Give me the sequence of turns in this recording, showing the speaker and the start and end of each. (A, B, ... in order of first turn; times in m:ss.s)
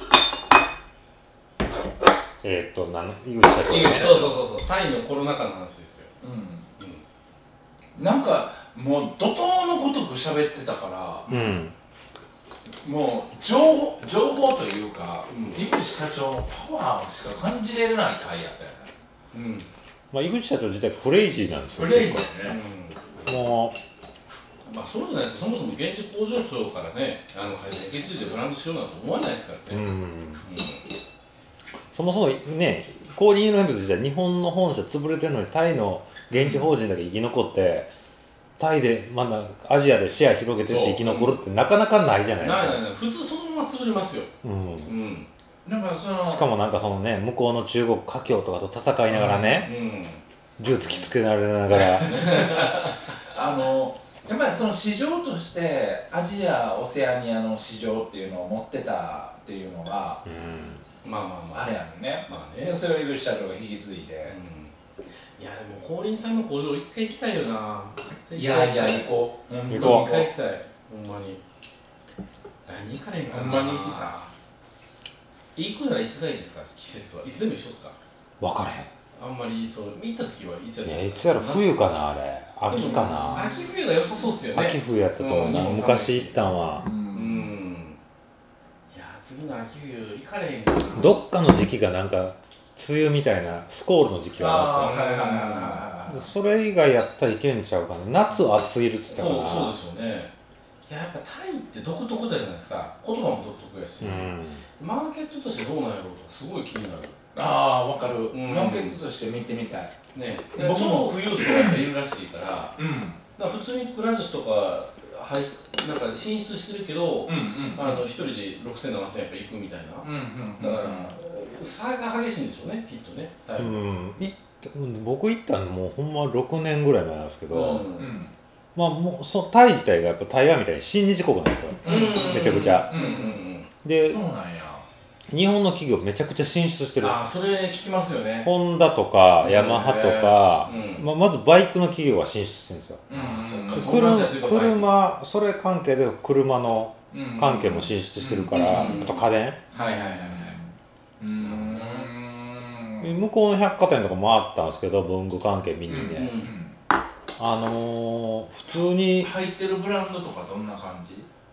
0:02.4-0:04.3 A
0:03.7-0:04.4 B
0:03.7-0:06.1 C
0:06.2-0:06.6 B
0:08.0-0:11.3 B
0:11.3-0:11.7 A
0:12.8-0:18.9 B
0:15.3-0:15.7 C
0:19.3-0:19.7 C
0:20.1-0:22.2 A
0:21.8-0:22.6 B
0:22.4-0:23.0 C
0:23.2-0:23.8 A
0:24.6-0:29.9 C
0:29.7-0:30.4 A
0:30.4-0:30.8 C
0:31.9-0:37.9 A
0:36.3-0:36.7 B
0:38.6-0:42.8 A
0:40.7-0:41.0 B
0:40.7-0:41.3 C
0:42.4-0:44.3 C
0:44.4-0:44.9 A
0:44.8-0:45.3 C
0:45.6-0:46.5 B
0:46.2-0:49.7 A
0:49.1-0:49.7 B
0:49.5-0:50.2 C
0:50.6-0:52.4 A
0:52.0-1:00.2 B
0:52.1-0:52.9 C
1:00.2-1:00.8 A
1:01.0-1:01.7 C
1:01.5-1:04.4 B
1:02.2-1:02.8 C
1:04.3-1:04.7 C
1:05.4-1:09.1 C
1:08.4-1:10.3 B
1:09.7-1:10.1 A
1:09.7-1:11.4 C
1:12.6-1:14.3 C
1:13.3-1:14.2 B
1:15.5-1:18.0 C
1:18.4-1:18.9 A
1:19.1-1:21.8 C
1:20.8-1:23.5 A
1:22.7-1:28.0 C
1:22.8-1:23.6 B
1:24.5-1:26.9 A
1:25.4-1:25.7 B
1:26.8-1:27.5 B
1:28.9-1:31.2 C
1:31.0-1:34.9 A
1:34.4-1:36.2 B
1:34.8-1:35.9 C
1:36.1-1:39.7 A
1:39.1-1:40.3 C
1:40.9-1:47.1 C
1:44.0-1:44.6 A
1:47.3-1:50.0 B
1:48.3-1:49.0 C
1:50.1-1:52.8 C
1:50.5-1:51.8 B
1:52.8-1:53.2 B
1:53.4-2:03.8 C
1:57.3-1:58.0 B
2:00.0-2:01.2 B
2:03.6-2:07.8 A
2:07.5-2:08.1 C
2:07.8-2:08.3 B
2:08.7-2:12.9 A
2:11.8-2:13.4 B
2:11.8-2:13.7 C
2:13.8-2:14.2 A
2:14.1-2:14.8 B
2:15.3-2:17.2 A
2:17.0-2:18.5 C
2:18.4-2:23.0 A
2:19.4-2:21.0 C
2:19.8-2:20.3 B
2:23.1-2:24.2 B
2:23.1-2:24.9 C
2:23.8-2:29.6 A
2:27.1-2:29.0 B
2:28.5-2:30.6 C
2:29.7-2:33.1 B
2:31.4-2:32.1 C
2:33.0-2:36.4 A
2:35.9-2:36.8 B
2:36.2-2:36.5 C
2:37.4-2:39.3 A
2:39.2-2:41.3 B